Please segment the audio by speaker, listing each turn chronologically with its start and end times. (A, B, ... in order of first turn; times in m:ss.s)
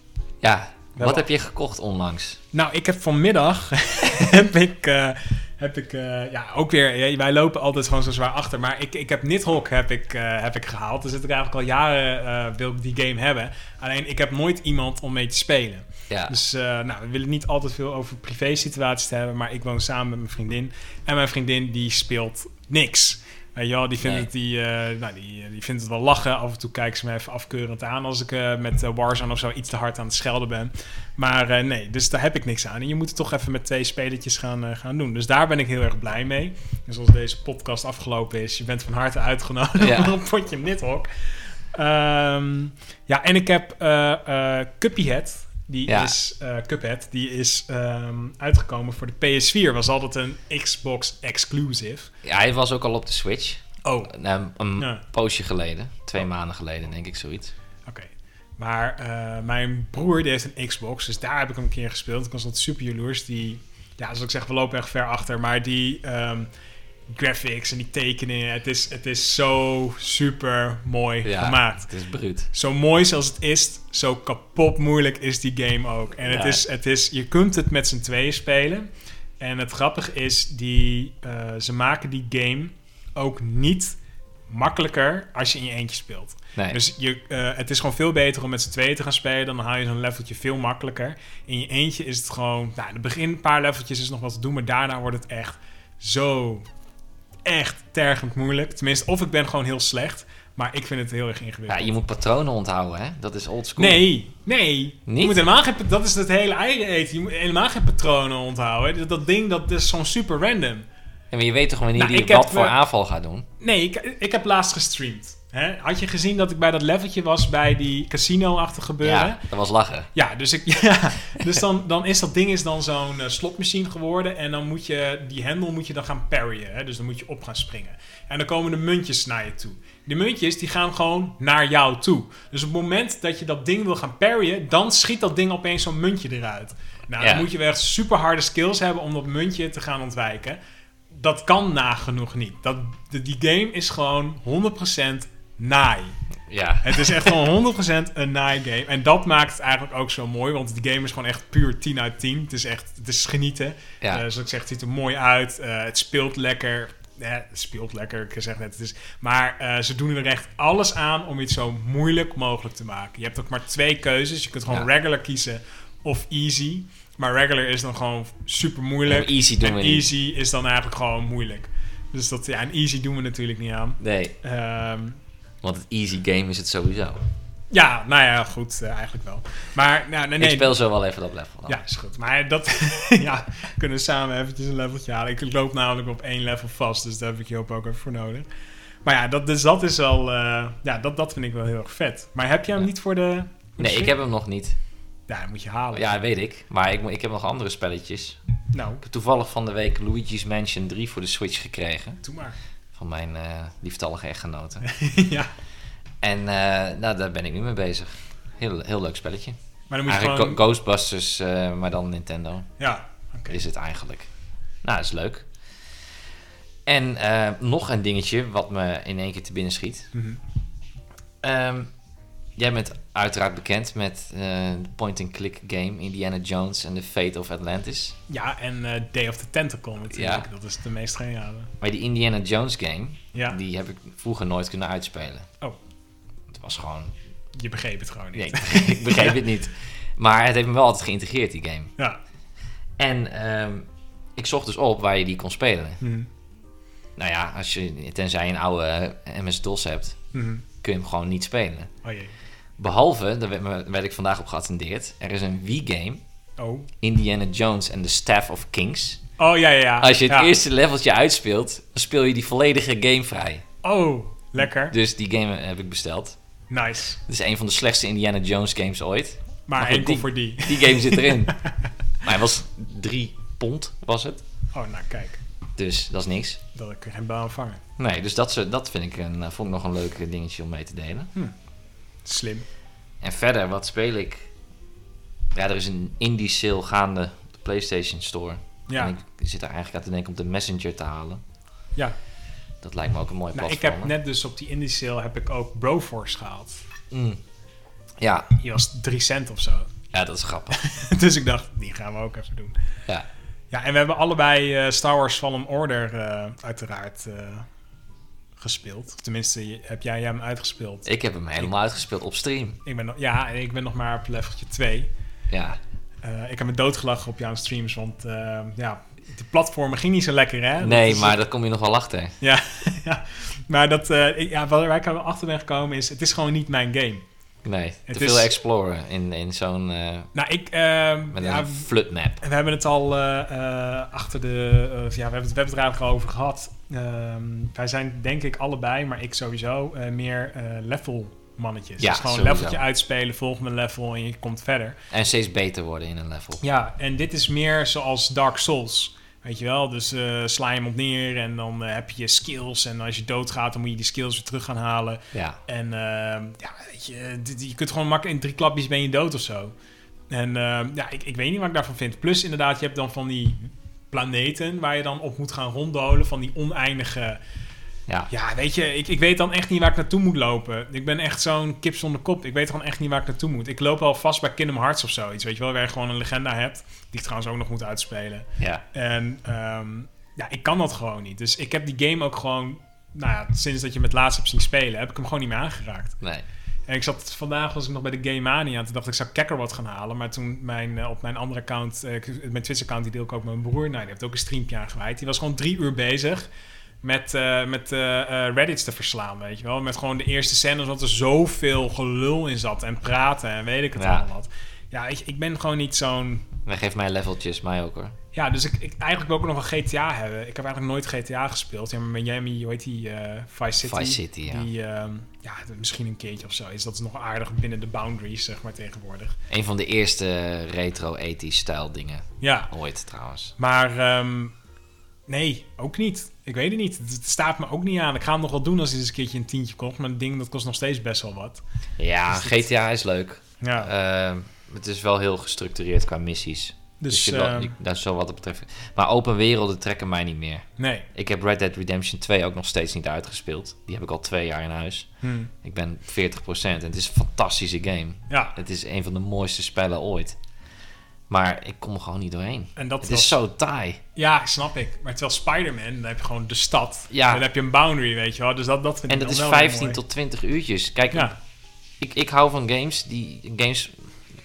0:00.4-0:02.4 A
0:01.0-0:01.2 B
0:02.5-0:41.1 B
0:16.1-0:16.4 A
0:24.0-0:24.3 A
0:39.8-0:40.2 A
0:41.7-0:52.1 B
0:45.9-0:46.1 A
0:52.2-0:57.5 A
0:53.8-0:54.2 B
0:54.8-0:55.0 B
0:57.9-1:06.5 B
1:07.1-1:11.9 B
1:11.2-1:12.5 A
1:12.5-1:18.9 B
1:16.3-1:16.6 A
1:19.4-1:24.0 B
1:24.5-1:36.6 B
1:37.5-1:42.0 B
1:41.7-1:44.0 A
1:43.8-1:50.9 B
1:45.1-1:45.4 A
1:51.3-1:53.5 A
1:52.0-1:52.8 B
1:53.6-1:59.4 B
1:59.0-2:00.1 A
2:00.1-2:20.6 B
2:17.2-2:17.5 A
2:21.1-2:26.2 B
2:26.5-2:27.3 A
2:26.8-2:55.2 B
2:49.1-2:50.1 A
2:54.0-2:54.4 A
2:55.6-2:57.2 A
2:57.7-3:00.7 B
3:00.4-3:01.8 A
3:01.7-3:08.5 B
3:09.0-3:14.1 B
3:13.8-3:14.8 A
3:15.3-3:16.1 B
3:15.9-3:18.4 A
3:18.7-3:19.0 B
3:19.0-3:22.2 A
3:22.2-3:22.6 B
3:23.0-3:24.8 A
3:24.8-3:25.5 B
3:26.2-3:32.7 A
3:29.9-3:30.6 B
3:32.8-3:33.6 B
3:33.5-3:34.3 A
3:34.8-3:35.5 A
3:36.9-3:40.1 A
3:40.1-3:40.4 B
3:41.4-3:41.9 A
3:42.6-3:48.2 A
3:48.3-3:51.7 B
3:50.1-3:50.5 A
3:51.8-3:55.5 A
3:56.5-3:57.2 A
3:57.6-3:59.4 B
3:58.3-4:01.9 A
4:03.0-4:06.0 A
4:06.0-4:06.3 B
4:07.2-4:10.2 A
4:10.3-4:10.6 B
4:10.8-4:11.9 A
4:12.0-4:12.3 B
4:12.8-4:16.2 A
4:16.6-4:16.9 B
4:17.0-4:19.2 A
4:19.4-4:20.5 B
4:20.0-4:23.6 A
4:23.8-4:24.9 B
4:24.9-4:26.4 A
4:26.7-4:27.2 B
4:27.3-4:31.6 A
4:29.7-4:31.9 B
4:32.2-4:34.4 A
4:34.7-4:35.4 B
4:35.8-4:36.6 A
4:36.7-4:37.8 B
4:38.0-4:41.3 A
4:42.2-4:42.6 B
4:43.2-4:44.5 A
4:45.5-4:51.4 A
4:48.9-4:49.2 B
4:52.8-4:54.1 A
4:53.5-4:56.8 B
4:57.1-4:57.4 A
4:58.2-4:58.5 A
4:58.6-4:59.9 B
5:00.1-5:00.8 A
5:00.7-5:02.8 B
5:03.7-5:07.7 B
5:08.6-5:11.1 B
5:11.1-5:12.8 A
5:12.8-5:15.1 B
5:15.5-5:15.8 A
5:16.2-5:21.4 B
5:20.8-5:22.4 A
5:22.4-5:27.2 B
5:27.6-5:30.3 A
5:28.1-5:28.5 B
5:30.3-5:31.9 B
5:31.3-5:32.4 A
5:32.4-5:45.0 B
5:42.0-5:42.8 A
5:45.1-5:46.6 A
5:46.6-5:59.8 B
5:55.3-5:55.6 A
6:00.3-6:07.4 B
6:08.3-6:26.2 B
6:18.6-6:18.8 A
6:26.9-6:36.5 B
6:37.0-6:46.5 B
6:44.0-6:44.3 A
6:46.7-6:48.2 A
6:48.3-6:59.4 B
6:53.8-6:54.7 A
6:59.5-7:03.5 A
7:02.4-7:02.7 B
7:03.6-7:04.6 B
7:05.3-7:11.6 B
7:12.0-7:25.1 A
7:12.3-7:12.6 B
7:13.6-7:13.9 B
7:17.0-7:17.7 B
7:20.8-7:21.1 B
7:25.2-7:25.5 B
7:25.6-7:30.4 A
7:28.3-7:28.6 B
7:31.3-7:34.0 A
7:32.8-7:33.4 B
7:34.2-7:40.0 B
7:37.1-7:37.4 A
7:39.1-7:41.3 A
7:42.0-7:44.0 A